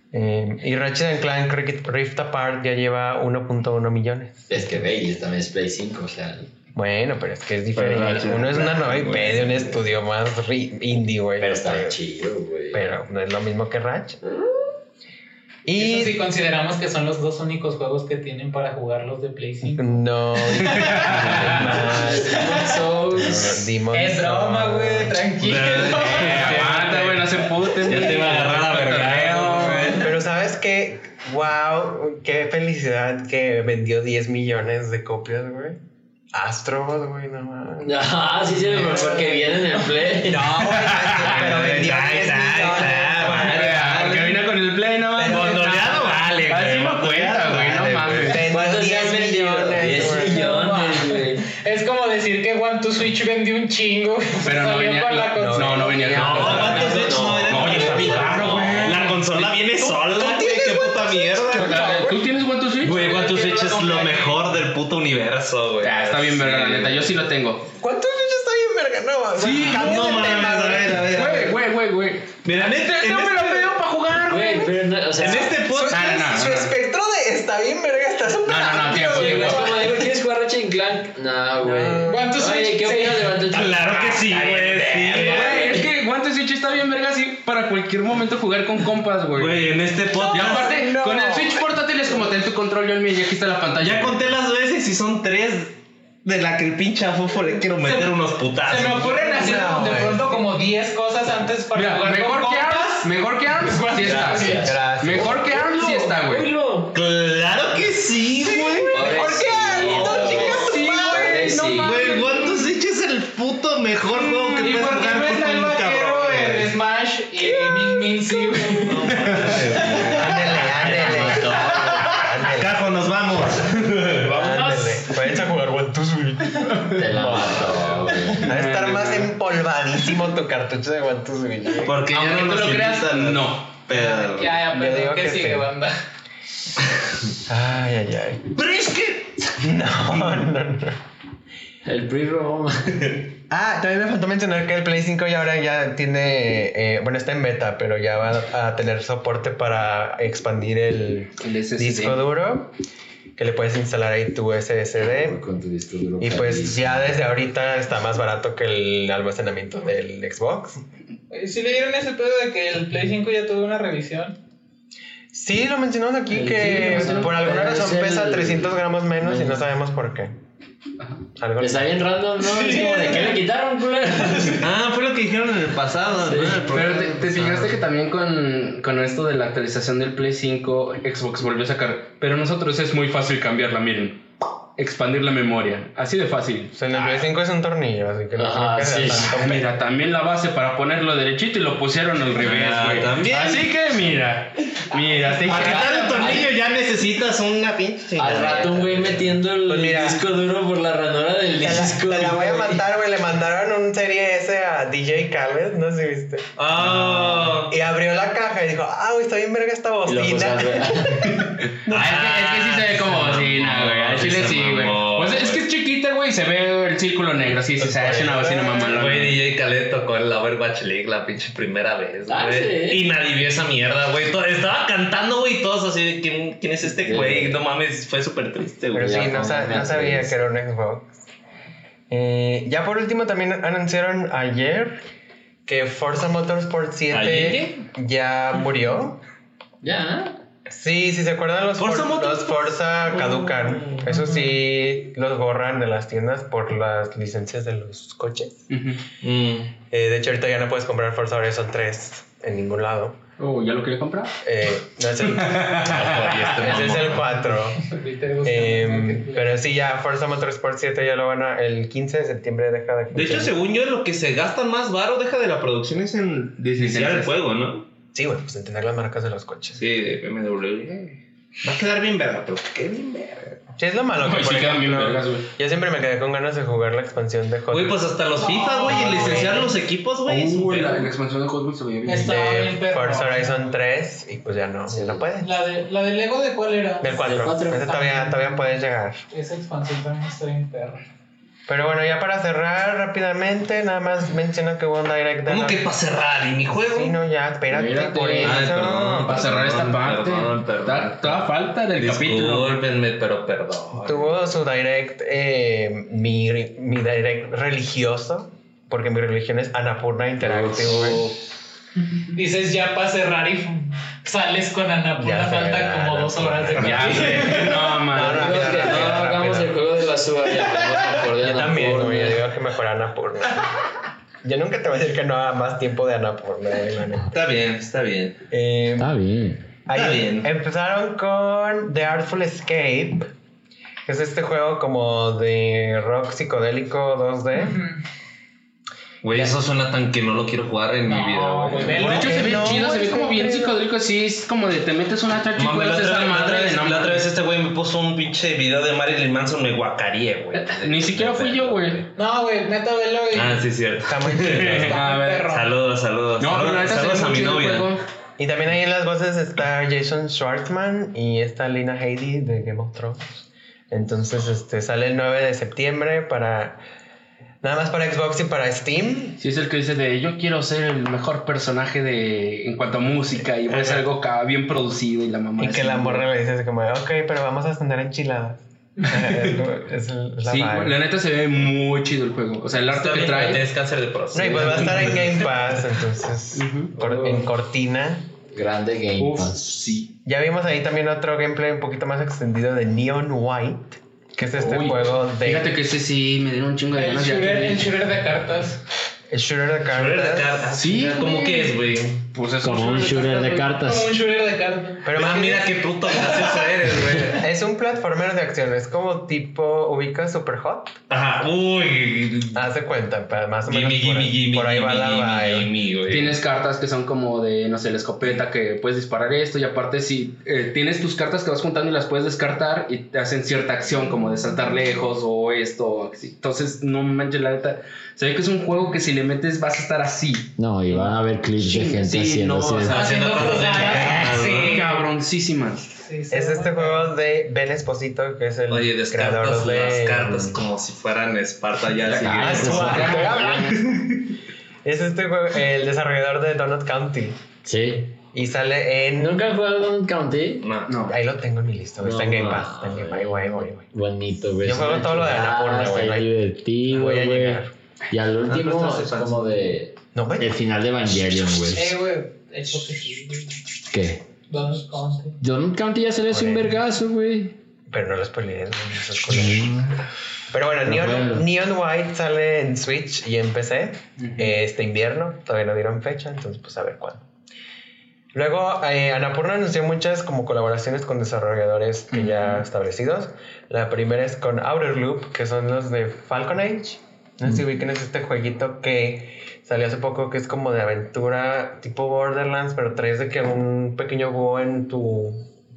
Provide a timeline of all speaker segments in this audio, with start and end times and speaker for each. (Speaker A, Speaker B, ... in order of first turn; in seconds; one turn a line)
Speaker A: 0.1-4.8
Speaker B: 4.5-6.5
Speaker A: 6.7-12.0
Speaker C: 7.7-9.7
Speaker B: 11.4-12.9
Speaker A: 12.7-14.2
Speaker B: 14.3-14.7
Speaker A: 15.7-16.2
Speaker D: 15.8-21.6
Speaker A: 19.7-22.4
Speaker E: 20.7-21.5
Speaker B: 21.5-23.6
Speaker D: 22.3-22.8
Speaker A: 23.2-25.2
Speaker D: 23.9-26.7
Speaker C: 25.4-30.1
Speaker E: 26.0-30.0
Speaker A: 30.0-35.8
Speaker A: 36.3-43.7
Speaker B: 37.8-40.5
Speaker E: 40.6-41.5
Speaker C: 40.9-44.4
Speaker E: 43.4-48.4
Speaker A: 45.1-45.8
Speaker C: 45.2-48.4
Speaker A: 48.2-50.5
Speaker B: 48.5-51.5
Speaker D: 50.1-57.1
Speaker E: 54.4-59.5
Speaker A: 55.4-57.0
Speaker C: 56.1-62.0
Speaker B: 56.6-58.5
Speaker A: 57.8-59.2
Speaker A: 59.8-62.3
Speaker E: 61.5-63.4
Speaker C: 62.8-67.1
Speaker D: 63.3-64.3
Speaker E: 65.8-67.7
Speaker A: 67.7-71.2
Speaker E: 69.4-70.4
Speaker C: 69.5-71.6
Speaker E: 71.1-74.7
Speaker C: 72.4-73.7
Speaker B: 74.2-75.6
Speaker C: 75.2-76.1
Speaker A: 75.7-79.6
Speaker E: 75.9-76.7
Speaker E: 78.4-79.7
Speaker D: 78.9-79.9
Speaker B: 78.9-83.9
Speaker A: 81.6-82.3
Speaker D: 82.1-83.5
Speaker C: 83.5-85.7
Speaker E: 83.9-89.7
Speaker B: 85.1-85.8
Speaker D: 85.4-85.7
Speaker C: 89.3-90.7
Speaker A: 90.1-91.8
Speaker E: 90.3-94.3
Speaker C: 93.8-99.6
Speaker D: 97.8-104.7
Speaker A: 99.3-100.4
Speaker E: 101.7-106.5
Speaker B: 104.0-104.8
Speaker A: 104.6-105.6
Speaker B: 105.7-106.9
Speaker C: 106.9-111.0
Speaker D: 108.6-111.4
Speaker B: 108.9-112.1
Speaker A: 109.3-110.9
Speaker E: 109.8-112.7
Speaker C: 111.8-116.7
Speaker E: 114.1-115.0
Speaker D: 114.6-120.2
Speaker C: 119.1-124.3
Speaker E: 119.2-119.6
Speaker A: 120.1-122.8
Speaker B: 120.7-122.1
Speaker A: 124.3-132.0
Speaker D: 124.4-125.1
Speaker B: 126.9-128.5
Speaker E: 128.4-129.3
Speaker C: 131.8-134.6
Speaker E: 132.1-133.7
Speaker D: 133.9-135.9
Speaker A: 134.7-135.7
Speaker A: 137.4-138.6
Speaker C: 138.6-139.5
Speaker A: 139.6-141.0
Speaker B: 141.8-143.2
Speaker A: 143.5-152.7
Speaker E: 151.4-152.2
Speaker A: 153.4-155.4
Speaker B: 155.0-157.2
Speaker A: 156.2-160.8
Speaker D: 161.3-164.4
Speaker A: 165.3-170.3
Speaker B: 166.3-169.6
Speaker A: 171.4-172.0
Speaker B: 171.6-174.6
Speaker D: 172.5-173.4
Speaker C: 174.4-177.8
Speaker B: 176.2-176.7
Speaker E: 176.7-184.2
Speaker E: 184.7-186.7
Speaker A: 186.7-189.7
Speaker B: 188.3-189.3
Speaker E: 189.2-196.4
Speaker C: 192.4-193.7
Speaker C: 195.3-199.3
Speaker B: 195.5-196.5
Speaker B: 198.2-202.8
Speaker A: 199.7-200.2
Speaker A: 201.6-212.1
Speaker C: 206.6-207.7
Speaker B: 210.1-211.3
Speaker C: 211.9-215.6
Speaker E: 211.9-219.4
Speaker A: 217.8-219.0
Speaker C: 218.9-229.2
Speaker B: 222.3-223.0
Speaker B: 227.0-227.6
Speaker B: 228.9-230.4
Speaker A: 228.9-231.2
Speaker A: 232.1-235.0
Speaker A: 235.7-239.2
Speaker C: 237.1-237.8
Speaker B: 239.8-240.4
Speaker A: 240.7-248.7
Speaker C: 241.8-244.1
Speaker E: 248.7-249.0
Speaker C: 249.2-249.7
Speaker A: 249.9-253.2
Speaker E: 253.4-254.3
Speaker A: 254.4-257.8
Speaker E: 255.2-256.8
Speaker C: 255.8-257.3
Speaker D: 257.8-259.5
Speaker A: 258.4-263.5
Speaker C: 263.1-267.9
Speaker E: 266.8-267.3
Speaker A: 268.1-269.8
Speaker C: 269.8-273.6
Speaker A: 273.8-278.1
Speaker E: 274.2-275.5
Speaker C: 277.7-281.1
Speaker D: 278.4-279.7
Speaker A: 278.8-279.7
Speaker E: 280.2-282.4
Speaker D: 282.0-283.6
Speaker A: 282.2-285.6
Speaker B: 284.9-285.2
Speaker D: 285.4-288.6
Speaker A: 287.0-289.2
Speaker B: 287.2-288.0
Speaker D: 289.3-291.0
Speaker A: 291.7-295.8
Speaker C: 295.4-297.1
Speaker A: 296.8-299.4
Speaker E: 297.7-302.7
Speaker C: 298.4-304.4
Speaker A: 303.9-311.2
Speaker B: 310.4-311.3
Speaker D: 312.1-318.0
Speaker A: 315.2-319.8
Speaker E: 316.8-319.1
Speaker C: 316.8-317.6
Speaker B: 318.3-322.4
Speaker A: 321.3-323.7
Speaker A: 324.4-327.3
Speaker C: 327.3-328.4
Speaker A: 328.5-329.1
Speaker B: 329.0-329.7
Speaker A: 329.9-333.3
Speaker C: 329.9-330.5
Speaker A: 334.1-337.8
Speaker D: 337.5-338.0
Speaker C: 339.2-342.8
Speaker D: 341.1-342.6
Speaker E: 341.8-347.3
Speaker A: 342.0-343.8
Speaker C: 345.6-352.1
Speaker E: 350.5-352.0
Speaker D: 352.1-353.7
Speaker C: 353.3-354.9
Speaker A: 354.0-355.0
Speaker E: 354.4-355.5
Speaker D: 354.7-355.7
Speaker C: 355.5-357.9
Speaker E: 356.4-358.0
Speaker A: 358.4-366.8
Speaker A: 367.6-369.4
Speaker E: 369.4-376.2
Speaker A: 373.7-374.0
Speaker A: 375.6-380.9
Speaker E: 379.2-379.6
Speaker E: 380.4-383.6
Speaker C: 382.9-385.4
Speaker A: 384.3-388.3
Speaker E: 384.4-385.3
Speaker E: 386.5-387.5
Speaker B: 388.5-390.0
Speaker E: 389.2-390.1
Speaker A: 390.2-395.7
Speaker E: 394.6-397.9
Speaker D: 396.9-398.8
Speaker A: 399.3-400.6
Speaker C: 399.9-402.2
Speaker E: 400.7-403.8
Speaker B: 402.6-404.2
Speaker D: 403.8-405.1
Speaker A: 405.0-405.6
Speaker C: 405.1-407.4
Speaker D: 406.2-406.6
Speaker A: 407.3-410.9
Speaker C: 411.1-412.6
Speaker A: 412.5-415.7
Speaker C: 413.6-416.4
Speaker E: 416.1-435.9
Speaker B: 430.6-433.0
Speaker C: 432.9-434.8
Speaker D: 432.9-435.1
Speaker D: 436.0-437.0
Speaker A: 436.3-440.5
Speaker C: 438.7-444.3
Speaker E: 442.1-443.8
Speaker A: 442.4-444.0
Speaker B: 442.6-443.4
Speaker A: 444.8-447.4
Speaker B: 447.6-448.2
Speaker A: 448.3-449.4
Speaker B: 449.2-450.7
Speaker C: 450.6-451.1
Speaker E: 450.9-451.1
Speaker A: 451.1-453.9
Speaker B: 452.0-461.9
Speaker A: 454.6-456.3
Speaker A: 456.9-457.7
Speaker C: 458.5-459.5
Speaker A: 460.1-460.6
Speaker D: 461.7-463.5
Speaker B: 463.9-464.2
Speaker D: 464.5-465.4
Speaker B: 465.4-467.6
Speaker A: 466.3-466.7
Speaker A: 467.9-469.9
Speaker B: 469.3-469.9
Speaker A: 470.5-477.2
Speaker B: 470.8-471.4
Speaker E: 474.2-474.6
Speaker A: 478.3-495.4
Speaker E: 482.1-482.4